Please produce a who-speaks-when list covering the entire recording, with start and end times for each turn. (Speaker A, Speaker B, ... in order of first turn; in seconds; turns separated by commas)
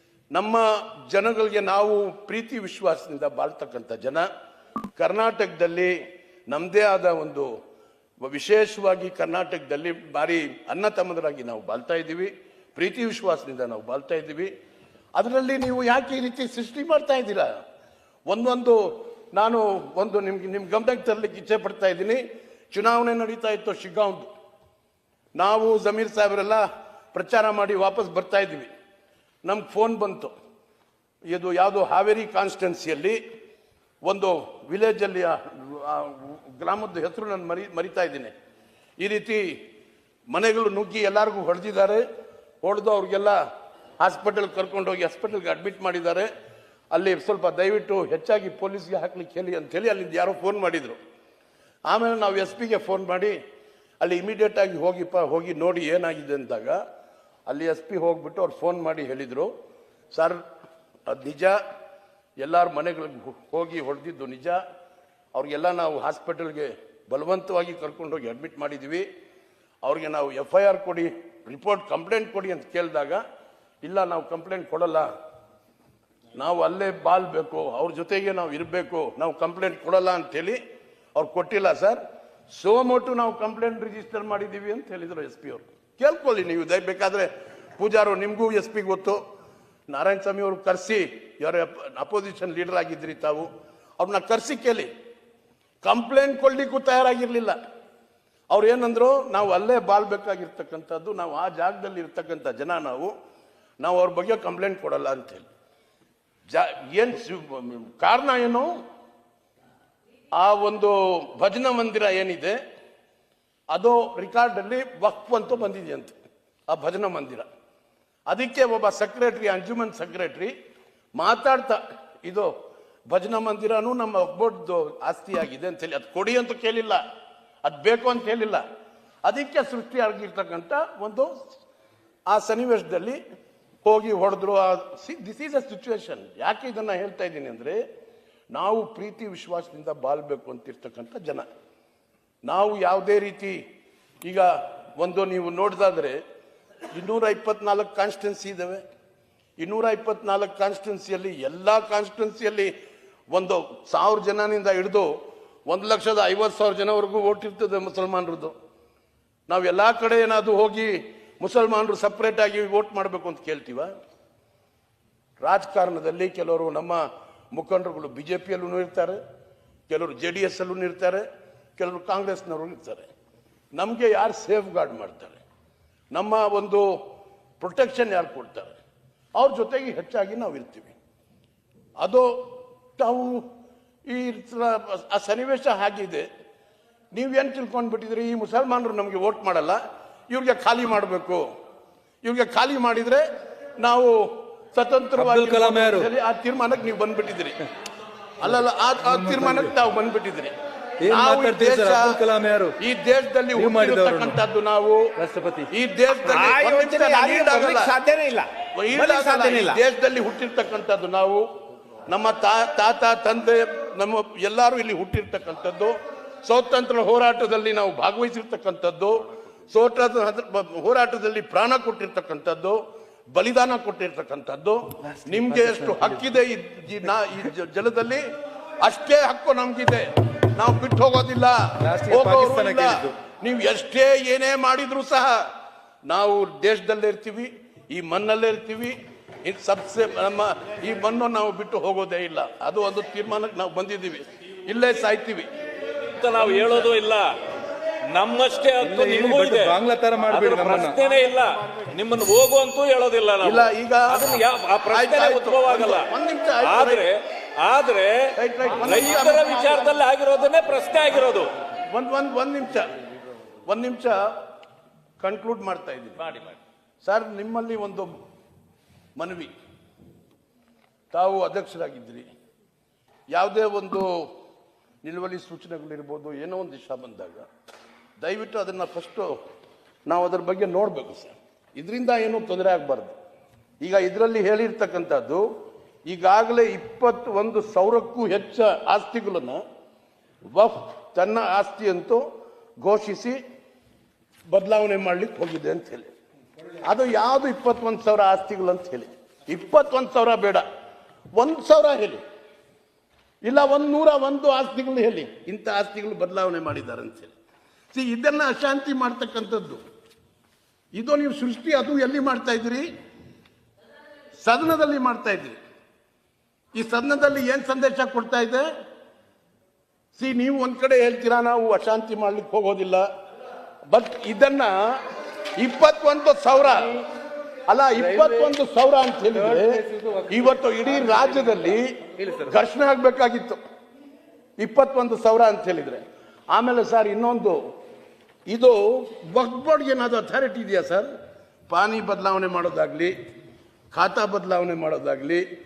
Speaker A: 0.3-4.2, Speaker A: 5.0-5.9, Speaker A: 6.5-7.5, Speaker A: 8.2-14.5, Speaker A: 15.2-17.5, Speaker A: 18.3-18.8, Speaker A: 19.3-24.3, Speaker A: 25.4-28.7, Speaker A: 29.4-30.3, Speaker A: 31.3-33.2, Speaker A: 34.0-38.3, Speaker A: 39.0-39.4, Speaker A: 40.3-42.0, Speaker A: 42.6-43.4, Speaker A: 44.0-46.3, Speaker A: 46.9-51.0, Speaker A: 51.9-53.3, Speaker A: 54.0-56.8, Speaker A: 57.5-59.5, Speaker A: 60.1-60.4, Speaker A: 61.1-61.6, Speaker A: 62.4-64.6, Speaker A: 65.3-69.0, Speaker A: 69.8-73.2, Speaker A: 73.8-75.1, Speaker A: 76.3-80.6, Speaker A: 81.2-89.2, Speaker A: 89.9-93.5, Speaker A: 94.0-94.9, Speaker A: 95.8-97.5, Speaker A: 98.5-103.1, Speaker A: 103.8-105.5, Speaker A: 106.5-108.7, Speaker A: 110.3-112.5, Speaker A: 113.7-116.2, Speaker A: 116.7-117.5, Speaker A: 118.3-120.5, Speaker A: 121.2-122.5, Speaker A: 123.1-127.0, Speaker A: 127.6-128.6, Speaker A: 129.2-131.3, Speaker A: 132.3-133.2, Speaker A: 133.8-137.8, Speaker A: 138.5-141.5, Speaker A: 142.4-143.6, Speaker A: 144.2-146.2, Speaker A: 146.9-148.8, Speaker A: 149.6-152.7, Speaker A: 153.3-155.1, Speaker A: 155.7-158.5, Speaker A: 159.5-163.9, Speaker A: 165.4-169.2, Speaker A: 169.9-171.2, Speaker A: 171.8-173.1, Speaker A: 173.8-175.4, Speaker A: 176.1-176.8, Speaker A: 177.6-178.7, Speaker A: 179.4-180.9, Speaker A: 182.0-183.4, Speaker A: 184.1-186.2, Speaker A: 187.1-189.8, Speaker A: 190.3-191.4, Speaker A: 192.2-193.2, Speaker A: 193.8-194.2, Speaker A: 194.7-197.6, Speaker B: 195.2-196.1, Speaker A: 198.4-200.5, Speaker B: 199.0-199.7, Speaker B: 201.0-202.8, Speaker A: 201.0-202.2, Speaker A: 202.8-205.1, Speaker B: 203.5-204.4, Speaker B: 205.2-205.7, Speaker A: 205.7-208.0, Speaker C: 206.3-209.8, Speaker A: 208.7-211.4, Speaker A: 212.1-222.8, Speaker A: 223.3-228.2, Speaker B: 225.0-226.2, Speaker A: 228.8-235.4, Speaker B: 231.8-233.1, Speaker A: 236.1-245.5, Speaker D: 246.2-247.3, Speaker A: 246.4-246.9, Speaker D: 248.1-256.1, Speaker B: 248.8-251.0, Speaker A: 253.4-254.3, Speaker A: 254.9-257.1, Speaker D: 256.6-261.5, Speaker A: 258.4-259.8, Speaker A: 261.9-262.9, Speaker A: 263.7-264.2, Speaker A: 265.2-266.4, Speaker A: 267.0-268.1, Speaker A: 269.2-269.5, Speaker A: 271.1-272.2, Speaker A: 273.3-274.1, Speaker A: 275.0-277.4, Speaker A: 278.2-279.3, Speaker A: 280.1-283.1, Speaker A: 283.8-285.5, Speaker A: 286.1-289.6, Speaker A: 290.5-292.2, Speaker A: 292.8-293.4, Speaker A: 294.5-296.1, Speaker A: 296.8-300.6, Speaker A: 301.3-302.2, Speaker A: 303.4-307.3, Speaker A: 307.9-309.8, Speaker A: 310.9-312.9, Speaker A: 314.4-315.6, Speaker A: 316.7-318.6, Speaker A: 320.1-323.0, Speaker A: 323.9-325.0, Speaker A: 325.6-327.0, Speaker A: 327.7-333.6, Speaker B: 327.9-328.6, Speaker B: 329.3-332.5, Speaker A: 334.6-337.6, Speaker A: 338.5-341.1, Speaker A: 341.7-343.1, Speaker A: 343.9-345.4